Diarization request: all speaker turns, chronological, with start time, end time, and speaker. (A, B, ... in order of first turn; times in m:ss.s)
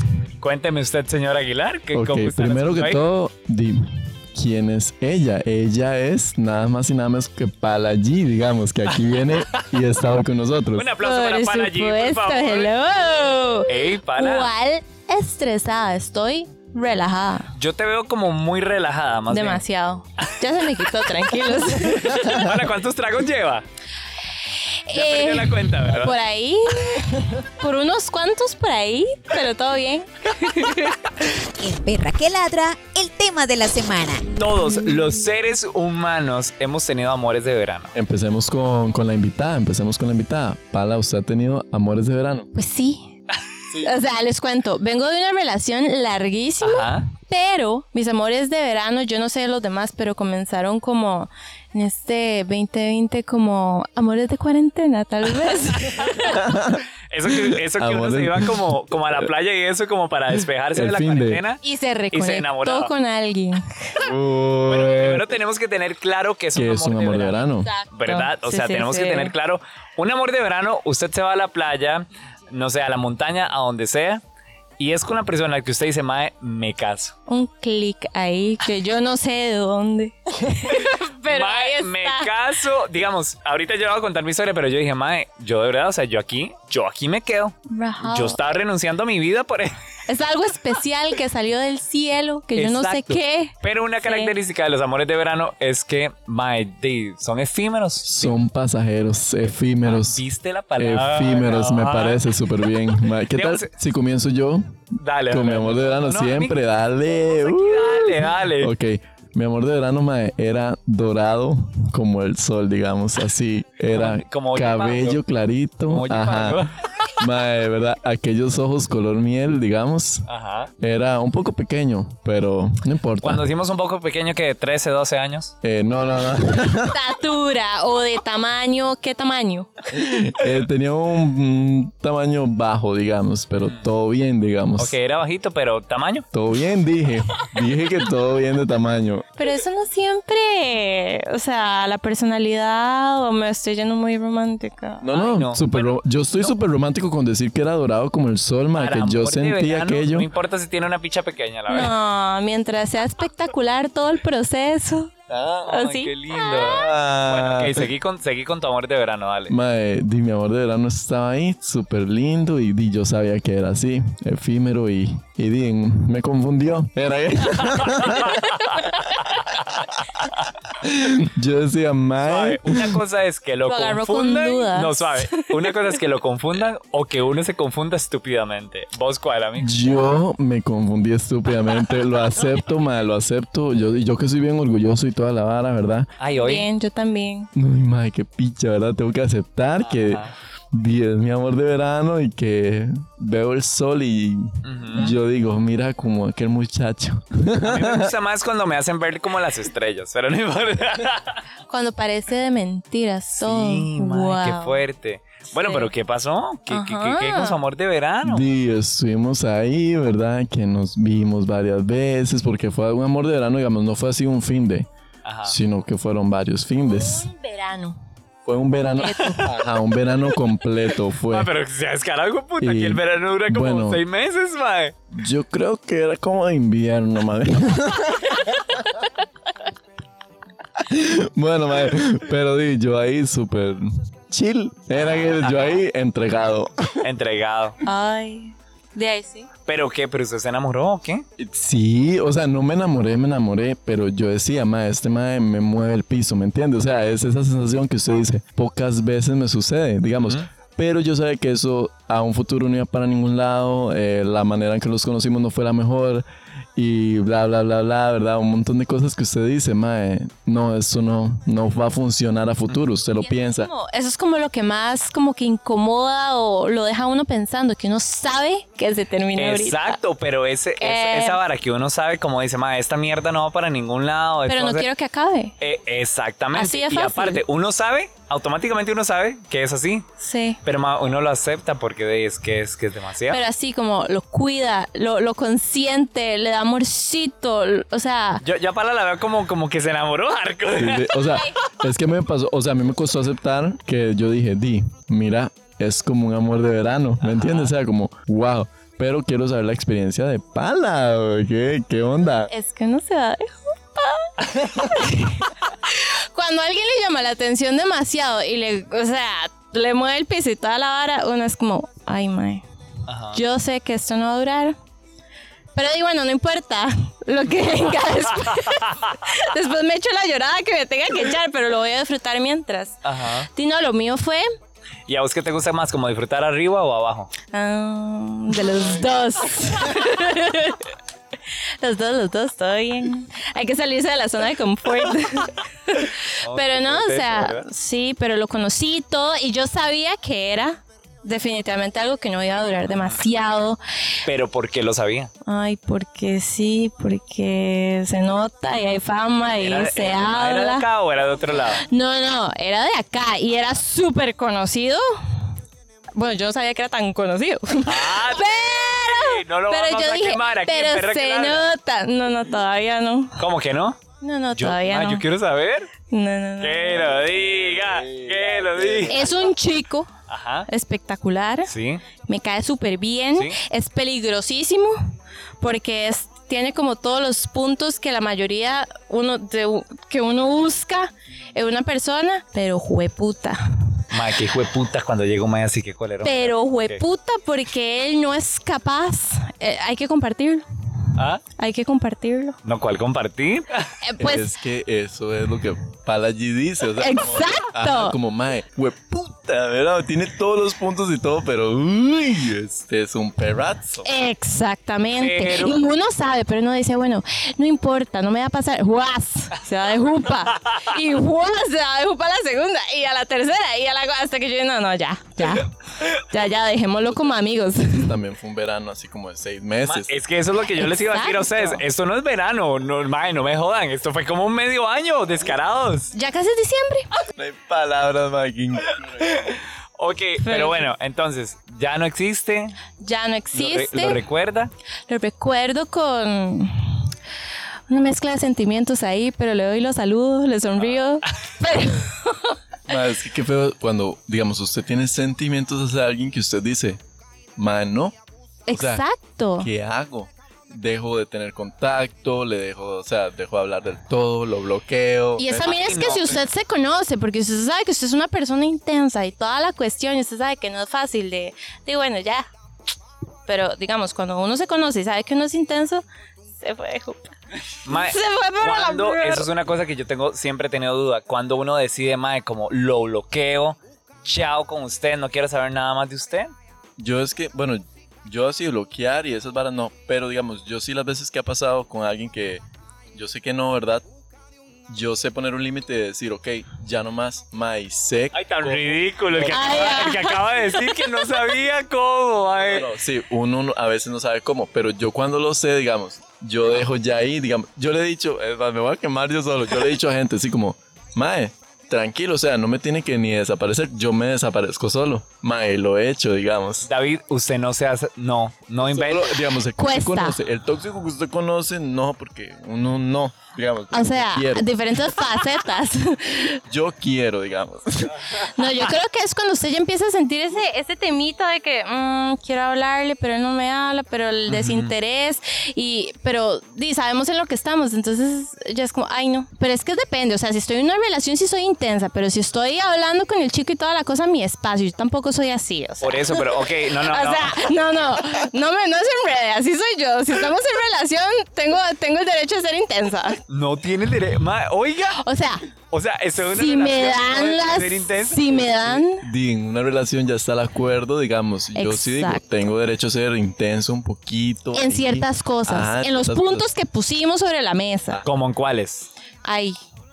0:00.4-0:03.0 A
0:01.9-0:10.9 B
0:10.8-0:12.7 A
0:11.0-0:17.5 C
0:13.7-0:14.5 A
0:17.6-0:19.6 A
0:19.3-0:22.5 C
0:21.5-0:23.6 A
0:24.9-0:31.0 C
0:24.9-0:26.1 A
0:31.6-0:34.2 D
0:34.4-0:37.9 A
0:37.9-0:42.5 B
0:42.5-0:43.1 C
0:43.8-0:56.4 C
0:46.6-0:47.1 A
0:55.8-0:56.2 A
0:56.2-0:59.3 B
0:57.1-1:01.6 A
1:00.7-1:01.4 B
1:01.6-1:04.0 C
1:02.1-1:02.9 A
1:04.0-1:05.3 B
1:04.6-1:14.2 A
1:06.5-1:07.7 B
1:07.6-1:09.3 C
1:14.8-1:17.1 A
1:17.3-1:22.3 C
1:20.7-1:29.7 A
1:27.7-1:28.4 C
1:30.1-1:34.3 C
1:32.6-1:38.4 A
1:38.0-1:40.2 B
1:39.8-1:42.2 A
1:40.8-2:00.3 B
1:43.3-1:43.7 A
1:45.0-1:46.6 A
1:47.3-1:48.7 A
1:53.9-1:55.2 A
1:55.9-1:56.8 A
2:00.3-2:00.7 A
2:00.8-2:03.4 B
2:03.2-2:05.5 A
2:05.6-2:07.0 B
2:06.8-2:09.7 C
2:09.9-2:15.0 B
2:13.6-2:13.8 A
2:14.8-2:16.2 A
2:16.3-2:19.2 B
2:19.4-2:25.0 C
2:25.0-2:30.3 B
2:25.1-2:26.6 A
2:28.8-2:31.9 A
2:31.7-2:35.1 C
2:35.3-2:35.8 B
2:35.7-2:39.5 A
2:35.7-2:36.9 C
2:36.5-2:37.9 B
2:39.5-2:48.4 B
2:47.7-2:49.8 A
2:50.8-2:53.0 B
2:52.2-2:59.7 A
2:53.6-2:55.7 C
2:59.6-3:06.1 B
3:06.2-3:06.6 A
3:06.4-3:07.5 C
3:07.5-3:18.1 B
3:09.8-3:10.3 A
3:14.6-3:15.1 A
3:17.6-3:21.4 A
3:21.7-3:24.8 C
3:23.4-3:28.4 A
3:25.5-3:25.9 C
3:26.7-3:27.6 C
3:28.2-3:34.9 B
3:35.2-3:35.5 A
3:35.4-3:37.3 B
3:36.8-3:38.0 C
3:38.4-3:41.5 B
3:39.0-3:39.4 C
3:41.3-3:44.9 A
3:42.6-3:44.0 B
3:45.1-3:48.6 B
3:50.8-3:57.0 B
3:55.4-3:55.8 A
3:57.0-3:57.8 A
3:57.8-3:59.5 C
3:59.7-4:01.2 A
4:01.4-4:16.2 B
4:16.8-4:23.7 B
4:23.2-4:30.0 C
4:29.4-4:34.8 A
4:30.8-4:31.4 C
4:34.5-4:35.6 C
4:35.6-4:40.0 A
4:36.5-4:37.4 C
4:40.2-4:40.6 C
4:40.6-4:43.4 A
4:43.3-4:48.4 C
4:48.4-4:51.1 A
4:50.8-5:02.5 B
4:57.2-4:57.7 A
5:02.5-5:12.6 C
5:13.1-5:13.4 A
5:13.3-5:14.8 C
5:15.7-5:24.4 C
5:18.5-5:19.2 A
5:23.0-5:23.5 A
5:25.1-5:27.3 A
5:27.5-5:30.8 C
5:31.8-5:43.8 C
5:36.4-5:37.7 A
5:44.2-5:45.3 A
5:45.4-5:50.8 C
5:49.6-5:51.8 A
5:51.8-5:55.1 C
5:56.1-6:03.4 C
5:57.8-6:01.6 A
6:03.4-6:04.0 A
6:04.2-6:05.2 C
6:04.6-6:05.9 A
6:06.1-6:07.0 C
6:06.6-6:09.1 A
6:07.4-6:09.5 B
6:09.1-6:10.1 C
6:10.3-6:10.7 A
6:10.7-6:11.7 C
6:11.6-6:12.0 A
6:12.2-6:15.0 C
6:15.6-6:24.0 C
6:24.1-6:27.0 A
6:26.2-6:30.6 C
6:31.2-6:31.4 A
6:31.4-6:32.6 C
6:32.6-6:33.8 A
6:34.0-6:34.5 C
6:34.2-6:44.1 B
6:37.0-6:38.2 C
6:44.0-6:58.1 C
6:45.2-6:45.8 A
6:57.1-6:57.4 B
6:58.0-7:00.2 B
6:59.9-7:06.1 A
7:00.8-7:01.8 C
7:06.1-7:07.1 C
7:07.3-7:09.5 B
7:09.2-7:12.7 A
7:10.4-7:10.9 C
7:13.0-7:14.2 C
7:13.5-7:14.7 A
7:15.1-7:17.1 C
7:17.9-7:22.6 C
7:22.9-7:27.0 B
7:27.6-7:28.2 B
7:28.7-7:29.7 C
7:28.7-7:29.0 B
7:29.6-7:35.7 B
7:35.4-7:42.5 C
7:35.6-7:36.4 A
7:43.5-7:46.0 C
7:46.6-7:47.3 C
7:47.8-7:56.5 A
7:47.8-7:49.5 C
7:57.0-8:04.0 B
8:04.9-8:10.2 B
8:08.3-8:12.9 A
8:09.5-8:10.7 C
8:12.6-8:26.9 B
8:26.9-8:29.3 A
8:28.8-8:34.7 B
8:29.8-8:30.4 C
8:33.9-8:36.6 C
8:36.7-8:38.6 B
8:38.5-9:03.4 C
8:44.5-8:44.9 A
8:56.0-8:57.6 A
9:03.5-9:05.2 A
9:05.2-9:05.6 C
9:05.9-9:09.0 A
9:06.4-9:09.2 C
9:09.1-9:16.7 B
9:11.7-9:12.4 C
9:14.7-9:18.2 C
9:18.2-9:19.1 A
9:19.4-9:19.8 C